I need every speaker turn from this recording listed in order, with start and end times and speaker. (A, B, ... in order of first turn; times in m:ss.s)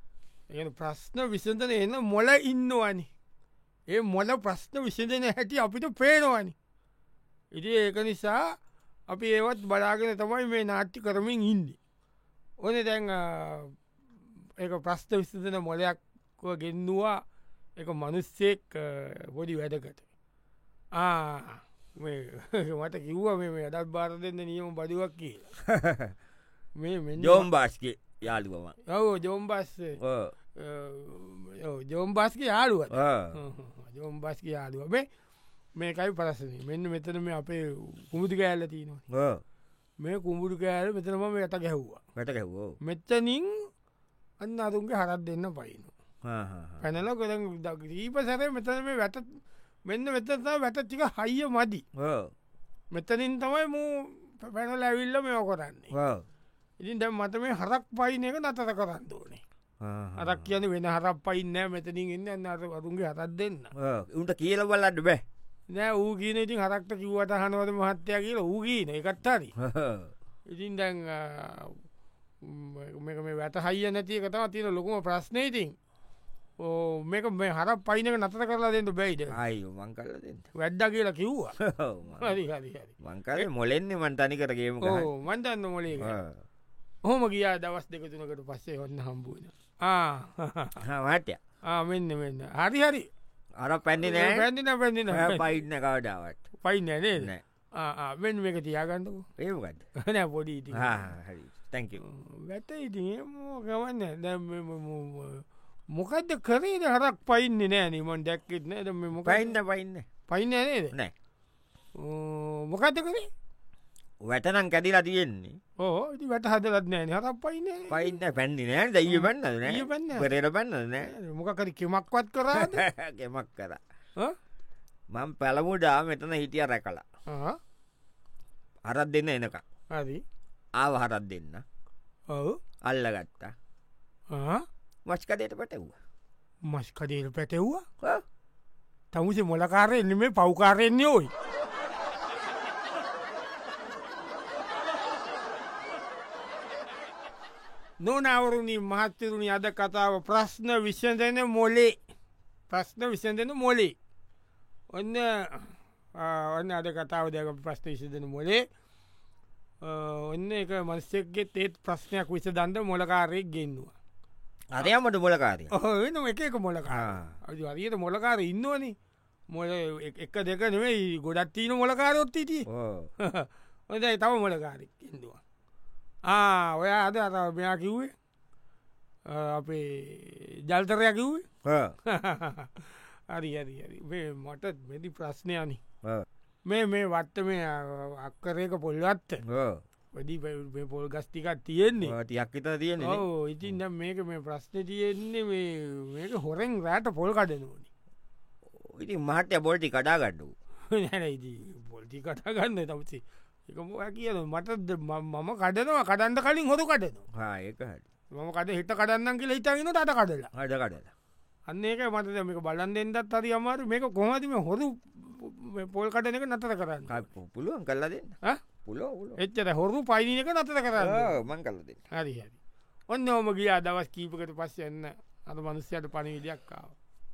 0:00.5-0:03.1 A
0:03.9-0:06.6 A
0:07.5-0:08.6 A
0:09.1-0:11.8 A
0:12.6-0:13.8 A
0:14.6-0:17.2 A
0:17.8-0:20.0 A
0:20.9-0:25.5 A
0:25.6-0:26.1 B
0:26.8-0:27.5 A
0:27.2-0:28.8 B
0:28.9-0:30.0 A
0:30.0-0:30.3 B
0:30.6-0:35.1 A
0:32.9-0:33.4 B
0:35.8-0:39.0 A
0:39.1-0:39.4 B
0:40.0-0:42.0 A
0:42.2-0:42.8 B
0:42.8-0:43.7 A
0:44.4-0:45.9 A
0:46.2-0:46.8 B
0:46.8-0:51.8 A
0:52.0-0:52.3 B
0:52.9-0:55.9 A
0:55.9-0:56.2 B
0:56.8-0:59.4 A
0:59.8-1:00.5 B
1:00.2-1:03.7 A
1:03.8-1:05.2 B
1:05.7-1:09.5 A
1:09.6-1:10.1 B
1:10.5-1:11.8 A
1:12.4-1:15.8 A
1:16.6-1:19.4 A
1:19.3-1:20.5 B
1:20.6-1:21.6 A
1:21.6-1:22.4 B
1:22.2-1:23.5 A
1:23.0-1:25.1 B
1:24.8-1:26.2 A
1:26.0-1:26.4 B
1:27.0-1:30.8 A
1:30.8-1:31.4 B
1:31.7-1:33.1 A
1:33.6-1:34.5 B
1:34.0-1:35.5 A
1:35.1-1:36.5 B
1:36.6-1:39.2 A
1:39.4-1:39.8 B
1:40.0-1:41.1 A
1:40.7-1:42.0 B
1:42.0-1:49.5 A
1:49.2-1:50.1 B
1:50.3-1:50.9 A
1:52.0-1:53.3 A
1:54.2-1:55.6 B
1:55.8-1:58.2 A
1:57.9-2:01.1 B
1:59.1-2:00.3 A
2:01.0-2:02.8 A
2:02.5-2:03.8 B
2:05.1-2:07.0 B
2:07.3-2:07.6 A
2:08.9-2:09.6 B
2:09.9-2:10.2 A
2:10.8-2:11.6 B
2:12.3-2:12.6 A
2:12.8-2:13.5 B
2:14.3-2:14.7 A
2:15.1-2:16.0 B
2:16.7-2:17.8 A
2:19.1-2:21.3 A
2:28.0-2:32.0 A
2:32.7-2:34.0 A
2:34.9-2:38.6 A
2:39.8-2:43.9 A
2:44.7-2:45.7 B
2:45.7-2:49.0 A
2:46.9-2:47.4 B
2:49.5-2:52.7 A
2:52.7-2:53.1 B
2:53.2-2:55.4 A
2:56.3-2:58.1 A
2:59.3-3:01.4 A
3:01.6-3:02.0 B
3:02.0-3:05.8 A
3:06.7-3:09.4 A
3:09.5-3:09.8 B
3:10.1-3:12.2 A
3:12.0-3:13.3 B
3:13.0-3:17.9 A
3:18.8-3:20.5 B
3:20.9-3:27.2 A
3:27.3-3:28.0 B
3:28.3-3:30.5 A
3:30.6-3:31.1 B
3:31.7-3:37.2 A
3:37.1-3:39.4 B
3:39.4-3:41.4 A
3:41.0-3:42.0 B
3:42.1-3:42.6 A
3:43.1-3:46.9 A